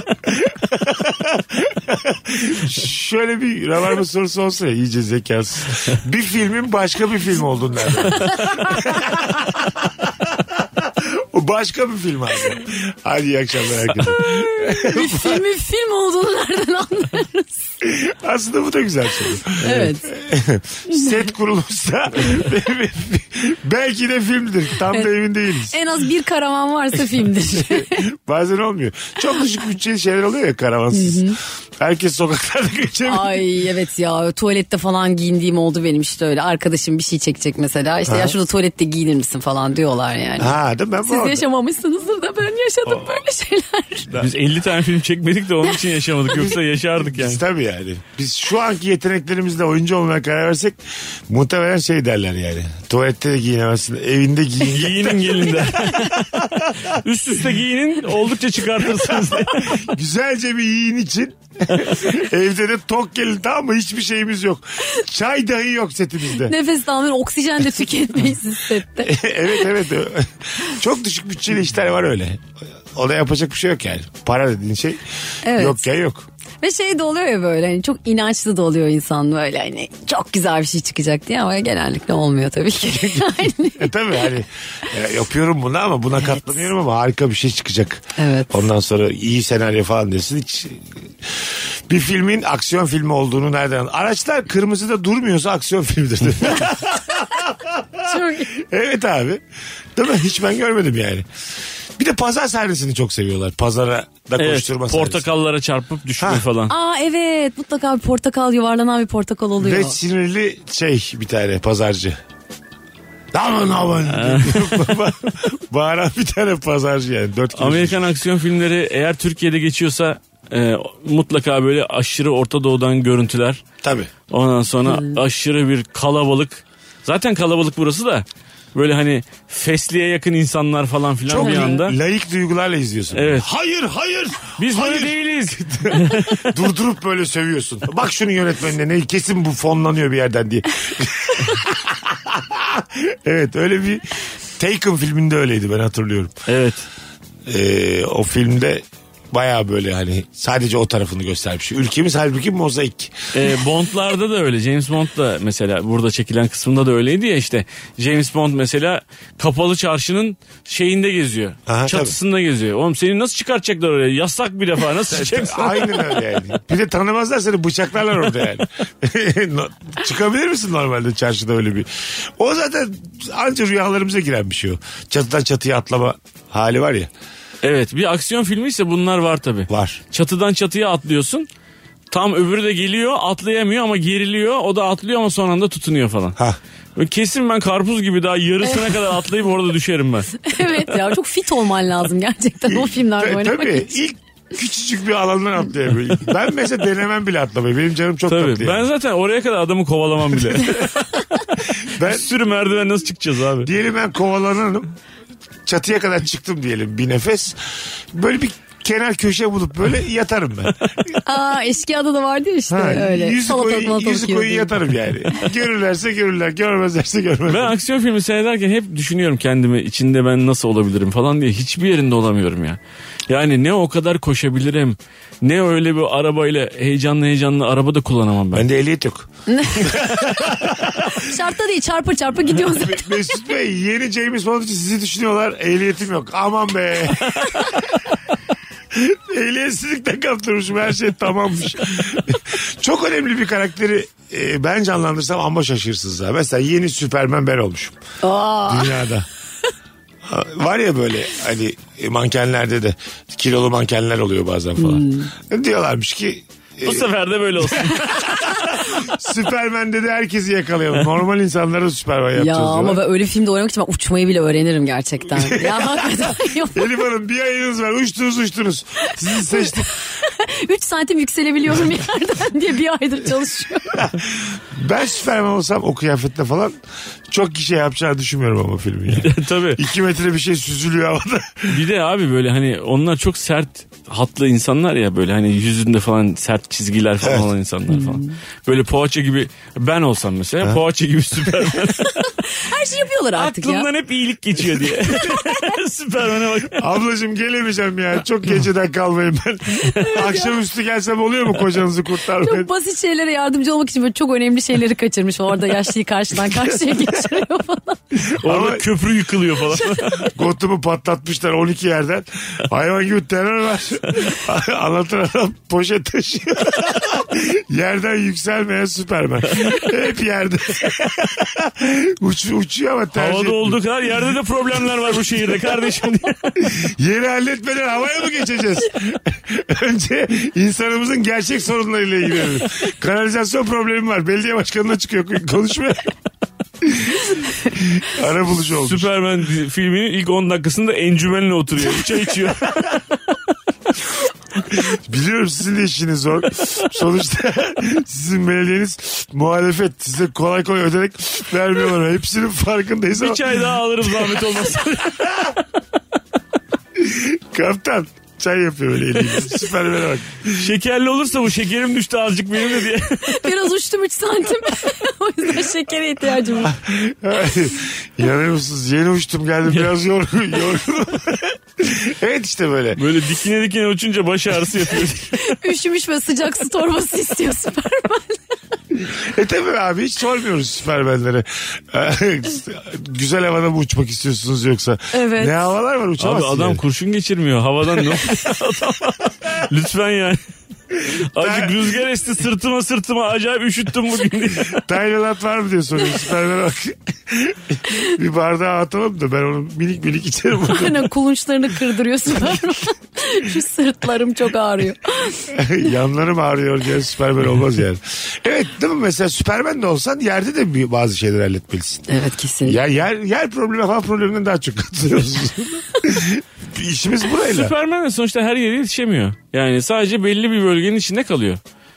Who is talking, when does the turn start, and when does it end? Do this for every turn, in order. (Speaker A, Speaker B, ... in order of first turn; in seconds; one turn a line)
Speaker A: 0.2-15.4
Speaker B: 8.2-8.7
Speaker B: 14.0-17.6
Speaker A: 17.8-25.8
Speaker B: 19.6-20.1
Speaker B: 25.7-28.1
Speaker A: 27.5-33.5
Speaker B: 30.9-31.4
Speaker B: 33.1-44.2
Speaker A: 38.1-38.4
Speaker A: 40.4-41.5
Speaker C: 44.1-47.4
Speaker A: 47.0-50.8
Speaker A: 51.3-57.0
Speaker C: 54.7-59.9
Speaker A: 58.9-66.5
Speaker B: 66.4-69.2
Speaker A: 69.0-72.4
Speaker A: 72.9-76.3
Speaker B: 75.4-75.9
Speaker B: 76.6-83.9
Speaker A: 82.8-99.4
Speaker B: 88.2-88.6
Speaker B: 98.0-98.5
Speaker A: 100.0-101.3
Speaker A: 102.0-105.2
Speaker C: 104.4-106.7
Speaker A: 106.2-106.5
Speaker B: 106.7-110.0
Speaker A: 109.6-112.2
Speaker A: 113.3-118.2
Speaker C: 114.1-115.0
Speaker C: 117.5-123.6
Speaker A: 123.8-124.1
Speaker C: 124.3-132.0
Speaker B: 124.9-125.2
Speaker A: 131.3-146.4
Speaker B: 131.4-131.8
Speaker C: 133.1-133.5
Speaker C: 134.6-136.5
Speaker C: 146.5-146.9
Speaker A: 147.5-153.3
Speaker C: 153.3-166.2
Speaker A: 161.7-162.2
Speaker A: 165.1-177.1
Speaker C: 177.6-181.5
Speaker A: 179.7-180.0
Speaker C: 182.1-186.4
Speaker C: 187.0-190.5
Speaker B: 190.4-193.9
Speaker A: 192.7-198.9
Speaker C: 198.3-200.9
Speaker A: 201.8-202.3
Speaker C: 202.0-203.7
Speaker A: 203.6-204.9
Speaker A: 205.7-210.8
Speaker B: 211.2-214.7
Speaker A: 212.7-217.8
Speaker C: 217.5-228.7
Speaker A: 228.5-231.2
Speaker B: 229.5-230.3
Speaker B: 230.9-233.3
Speaker A: 232.7-237.8
Speaker A: 238.9-248.0
Speaker B: 248.2-249.1
Speaker A: 248.7-249.3
Speaker A: 250.2-257.1
Speaker B: 254.8-255.3
Speaker C: 256.8-258.8
Speaker A: 257.7-263.0
Speaker B: 262.4-266.9
Speaker A: 265.3-269.9
Speaker B: 269.3-274.1
Speaker A: 273.9-276.8
Speaker A: 277.3-281.9
Speaker C: 279.1-279.8
Speaker C: 281.7-292.1
Speaker A: 287.2-287.5
Speaker B: 287.9-288.3
Speaker B: 292.0-293.9
Speaker C: 293.4-296.9
Speaker B: 295.1-295.7
Speaker A: 296.8-302.7
Speaker B: 299.9-300.6
Speaker B: 302.4-308.0
Speaker A: 308.1-308.9
Speaker C: 308.4-310.3
Speaker A: 310.2-323.8
Speaker C: 323.1-326.7
Speaker A: 326.6-336.1
Speaker A: 336.8-339.1
Speaker C: 338.7-343.0
Speaker A: 344.7-353.6
Speaker C: 353.2-355.6
Speaker A: 355.1-355.5
Speaker A: 356.9-360.7
Speaker C: 360.6-363.5
Speaker B: 363.2-366.8
Speaker A: 366.6-373.0
Speaker C: 373.0-375.6
Speaker B: 375.4-378.4
Speaker A: 378.9-386.8
Speaker B: 385.1-385.6
Speaker C: 386.2-390.4
Speaker C: 391.1-394.8
Speaker A: 391.1-391.9
Speaker A: 394.7-401.1
Speaker B: 400.7-405.5
Speaker A: 405.5-412.1
Speaker B: 412.1-412.8
Speaker A: 412.6-417.7
Speaker C: 417.4-421.6